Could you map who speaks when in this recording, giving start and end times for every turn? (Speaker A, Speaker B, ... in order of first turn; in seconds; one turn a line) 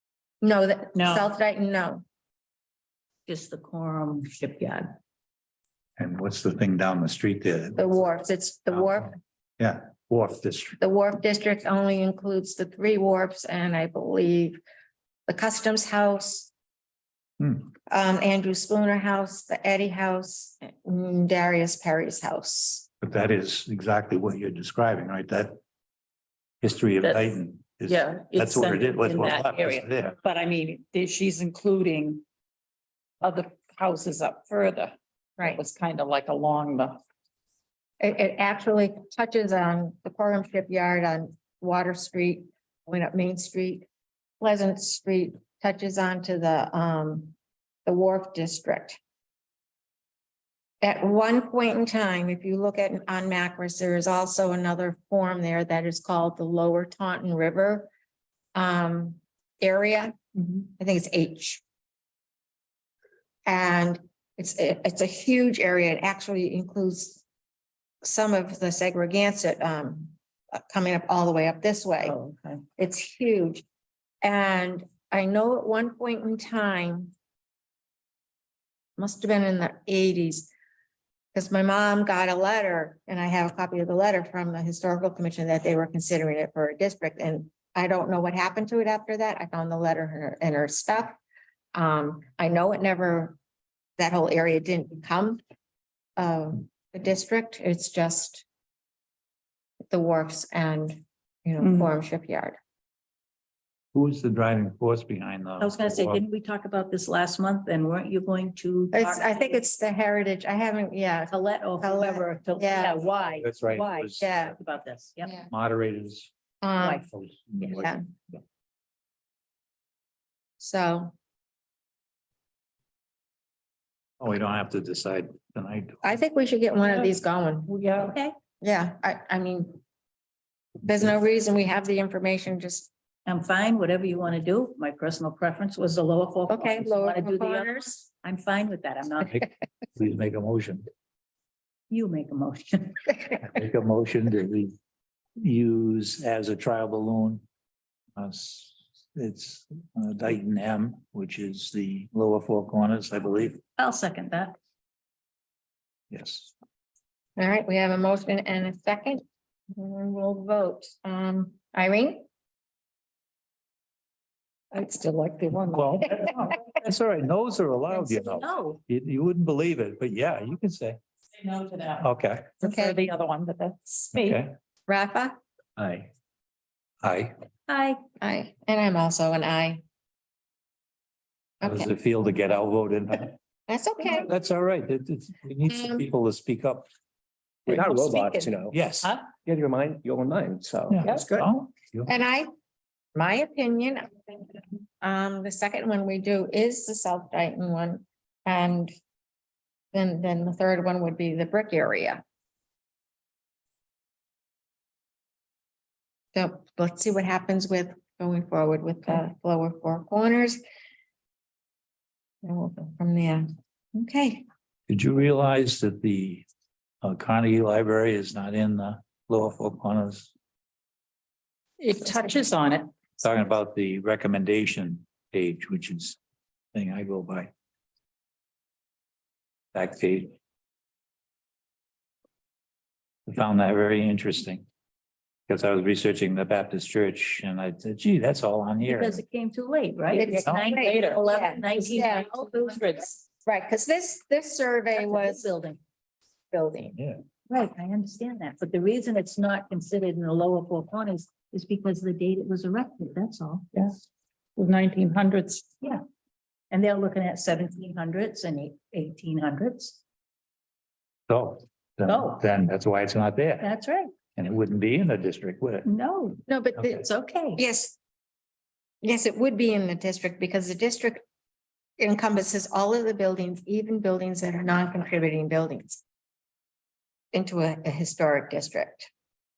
Speaker A: 0.4-2.0
Speaker B: 0.9-1.3
Speaker C: 3.3-4.9
Speaker D: 6.0-7.8
Speaker A: 7.8-9.2
Speaker D: 8.7-9.0
Speaker D: 9.6-10.8
Speaker A: 10.8-14.6
Speaker A: 15.3-16.5
Speaker D: 17.4-17.7
Speaker A: 17.9-22.9
Speaker D: 23.0-25.6
Speaker D: 26.6-30.1
Speaker B: 27.0-32.2
Speaker B: 33.2-37.0
Speaker A: 35.4-35.6
Speaker A: 38.0-43.9
Speaker A: 44.4-47.3
Speaker A: 47.9-49.0
Speaker A: 50.8-57.9
Speaker A: 58.5-61.6
Speaker A: 63.5-67.2
Speaker A: 68.0-72.2
Speaker C: 72.1-72.6
Speaker A: 72.8-73.6
Speaker A: 74.2-77.1
Speaker A: 79.0-80.5
Speaker A: 81.3-91.2
Speaker A: 91.7-93.4
Speaker A: 94.0-95.4
Speaker A: 96.2-98.4
Speaker A: 99.9-102.6
Speaker D: 103.9-106.2
Speaker C: 105.6-109.6
Speaker A: 108.9-113.1
Speaker C: 111.3-115.3
Speaker D: 113.4-114.5
Speaker A: 114.1-114.5
Speaker A: 115.2-115.5
Speaker D: 115.5-116.3
Speaker A: 116.6-117.0
Speaker C: 116.8-117.1
Speaker D: 117.1-117.9
Speaker A: 117.6-118.0
Speaker A: 120.6-121.1
Speaker D: 124.2-126.2
Speaker A: 126.0-127.8
Speaker C: 127.9-128.3
Speaker A: 128.6-129.8
Speaker A: 130.8-132.9
Speaker C: 133.2-139.4
Speaker A: 136.5-138.0
Speaker D: 139.9-140.8
Speaker C: 141.9-143.0
Speaker D: 143.4-144.7
Speaker D: 145.4-147.4
Speaker D: 148.2-153.6
Speaker C: 153.8-154.6
Speaker D: 156.1-156.5
Speaker A: 157.4-162.2
Speaker A: 164.8-166.3
Speaker D: 165.6-171.0
Speaker C: 167.9-168.8
Speaker B: 171.3-172.0
Speaker D: 172.0-172.6
Speaker A: 172.6-173.0
Speaker B: 172.6-174.4
Speaker D: 174.1-174.5
Speaker A: 174.9-175.3
Speaker D: 175.8-176.1
Speaker D: 177.0-177.3
Speaker C: 177.7-178.0
Speaker A: 178.2-179.8
Speaker A: 181.6-181.9
Speaker D: 181.6-183.3
Speaker A: 183.7-184.3
Speaker D: 184.0-186.9
Speaker A: 185.7-186.0
Speaker E: 187.7-191.5
Speaker A: 188.1-188.5
Speaker D: 188.7-189.1
Speaker D: 190.9-192.1
Speaker A: 192.1-192.5
Speaker A: 193.1-198.9
Speaker A: 199.9-202.2
Speaker A: 206.3-210.6
Speaker A: 212.4-214.4
Speaker D: 214.9-216.4
Speaker D: 217.0-220.3
Speaker B: 221.8-222.9
Speaker D: 223.2-226.2
Speaker D: 226.7-227.5
Speaker D: 229.7-230.3
Speaker D: 233.3-234.7
Speaker D: 235.5-239.2
Speaker C: 238.8-243.2
Speaker A: 240.1-245.5
Speaker D: 240.4-240.7
Speaker C: 244.9-245.8
Speaker A: 246.5-246.9
Speaker D: 246.9-247.2
Speaker C: 247.5-253.7
Speaker B: 254.6-255.8
Speaker C: 256.7-260.0
Speaker D: 261.3-263.7
Speaker C: 262.1-262.4
Speaker C: 263.6-264.1
Speaker D: 264.4-265.9
Speaker C: 265.8-267.6
Speaker A: 266.5-267.1
Speaker A: 267.6-267.9
Speaker A: 269.0-271.2
Speaker A: 272.0-276.0
Speaker A: 277.3-279.1